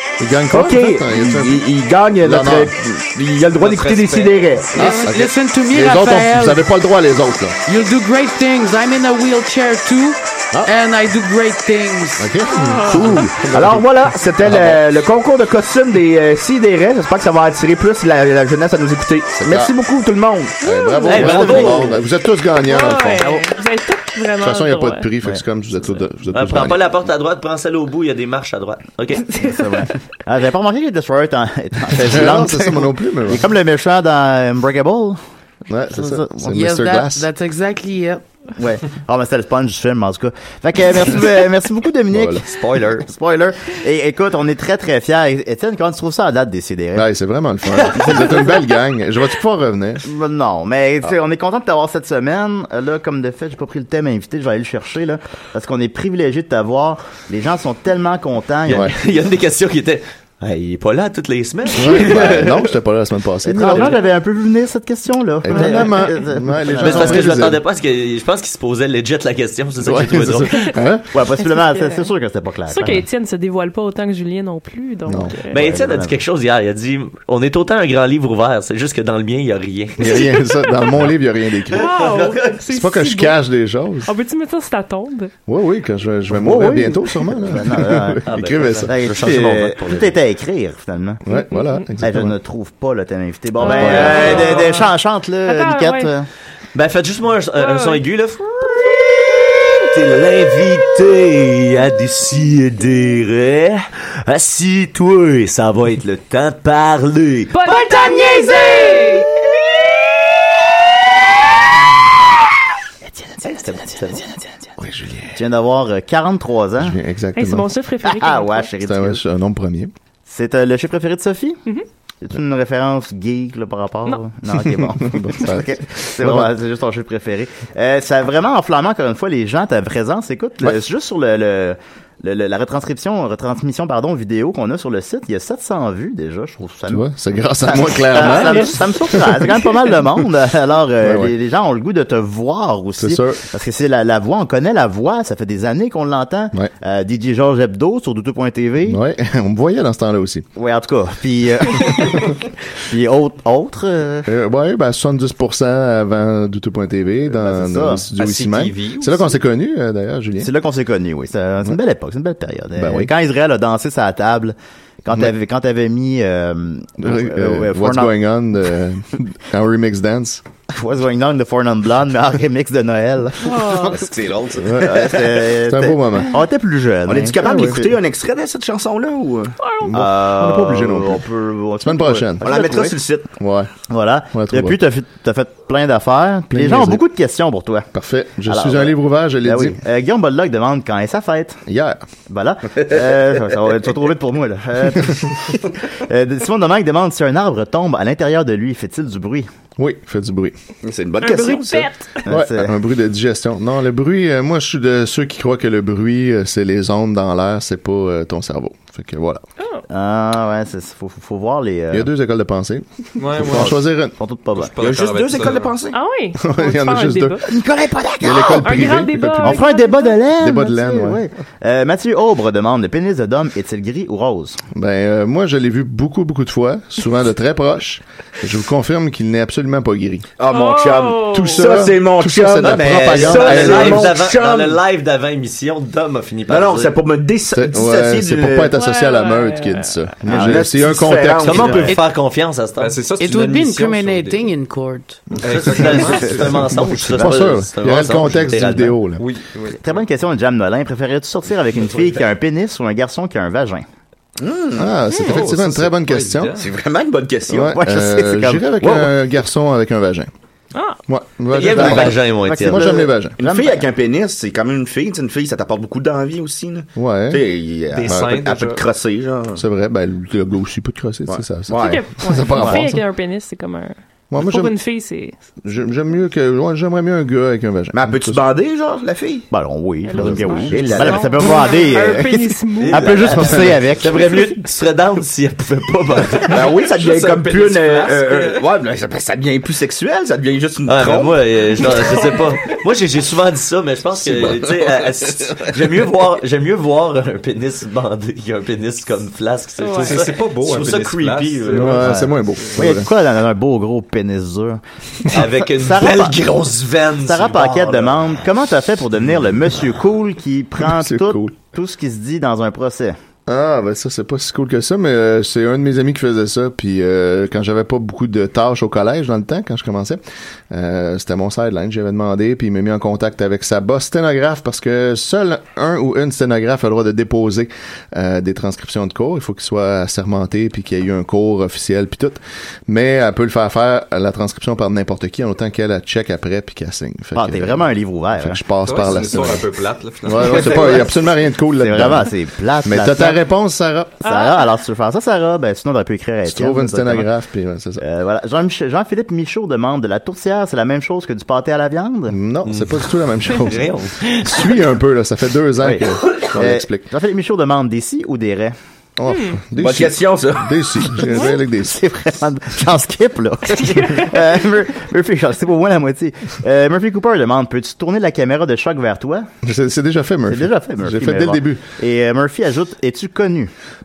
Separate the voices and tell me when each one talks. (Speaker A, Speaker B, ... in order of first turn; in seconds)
Speaker A: 0.2-1.7, 2.2-2.7, 4.7-7.5, 12.2-14.8, 19.3-19.7, 20.6-23.4, 24.4-26.9, 31.9-33.4, 35.7-37.3, 42.1-42.4, 46.9-50.0, 58.7-59.0, 61.7-64.0, 65.4-67.6, 69.8-71.1, 75.0-75.4, 80.0-81.9, 82.7-84.1, 85.5-88.9, 91.2-92.3, 93.7-94.5, 114.8-115.4, 116.8-117.7, 118.8-119.9, 124.7-126.5, 136.9-139.4, 141.0-141.3, 143.0-143.4, 148.8-150.4, 154.3-160.5, 162.7-163.1, 167.0-170.4, 174.6-176.3, 177.4-177.8, 179.8-181.2, 181.8-182.6, 183.4-183.7, 184.3-184.8, 186.5-187.0, 187.9-189.8, 191.7-192.0, 199.8-200.6, 202.3-209.4, 211.9-214.2, 216.3-217.5, 218.2-219.7, 220.3-221.2, 224.7-230.3, 231.3-234.2, 237.5-241.8, 245.3-245.6, 246.4-249.3, 254.8-256.6, 257.5-260.3, 261.1-263.4, 266.9-267.4, 268.1-268.4, 269.5-273.0, 274.3-274.7, 275.6-278.4, 301.7-303.1, 310.8-311.6, 313.5-339.7, 340.2-342.3, 342.8-344.2, 346.4-348.0, 352.3-357.1, 359.2-362.0, 369.6-371.8
Speaker B: 0.5-4.8, 12.8-20.7, 173.9-175.2, 177.1-179.5, 182.4-183.3, 200.8-201.9, 214.8-216.0, 217.4-218.6, 230.4-234.8, 236.5-238.7, 240.3-242.0, 254.4-255.3, 256.6-257.7, 263.4-269.6, 271.3-272.1, 277.9-279.5, 280.2-281.4, 286.5-292.4, 294.1-296.0, 359.8-361.2
Speaker C: 3.6-4.5, 158.2-159.4, 213.2-213.8, 214.5-215.7, 242.8-244.5, 245.4-246.8, 249.2-249.8, 255.2-256.6, 267.9-268.8, 286.7-288.6, 300.0-302.3, 338.8-341.1
Speaker D: 4.7-6.7, 7.6-12.3, 36.4-38.2, 241.7-242.1, 243.1-245.2
Speaker E: 12.5-13.3, 20.6-21.6, 22.6-25.1, 70.5-70.8, 71.4-72.1, 72.7-75.6, 80.0-80.9, 81.7-83.4, 84.0-85.3, 91.3-91.8, 93.6-94.9, 95.4-96.1, 97.6-98.0, 107.5-109.3, 117.3-118.7, 173.4-174.0, 179.6-179.9, 201.2-202.2, 209.6-209.8, 215.9-217.4, 218.6-220.2, 230.5-231.7, 238.7-240.0, 271.8-275.4, 280.0-283.6, 299.8-300.1, 344.2-344.6, 359.3-359.6, 363.8-364.4
Speaker F: 21.0-22.0, 26.3-29.4, 42.4-43.0, 58.7-62.7, 66.8-70.7, 75.5-80.2, 81.7-82.6, 88.2-90.2, 93.7-94.8, 96.7-107.7, 113.4-114.3, 232.6-236.9, 241.3-243.0, 245.5-249.0, 261.5-263.1, 282.9-286.6, 290.9-302.3, 305.3-308.3, 352.6-354.9
Speaker G: 21.1-22.0, 29.4-35.2, 35.9-36.5, 38.5-47.1, 47.9-48.5, 50.0-58.9, 62.0-62.4, 63.4-67.5, 71.1-73.0, 75.5-76.2, 86.3-88.2, 88.8-91.2, 92.0-96.3, 113.3-114.2, 115.3-117.0, 118.0-119.2, 120.3-121.6, 122.2-137.1, 137.6-149.0, 150.6-154.3, 157.3-158.1, 160.4-168.1, 170.7-174.0, 174.7-177.9, 179.9-182.9, 183.9-187.9, 188.5-191.6, 192.3-199.5, 202.2-202.8, 209.9-212.1, 213.4-214.7, 219.4-224.6, 240.2-240.7, 246.9-247.4, 249.8-253.8, 257.5-259.1, 261.6-263.9, 279.5-284.2, 302.7-306.4, 307.2-313.2, 337.3-338.6, 340.6-341.1, 341.8-343.4, 344.2-347.3, 348.0-352.4, 355.8-358.8, 361.7-369.5, 370.5-373.7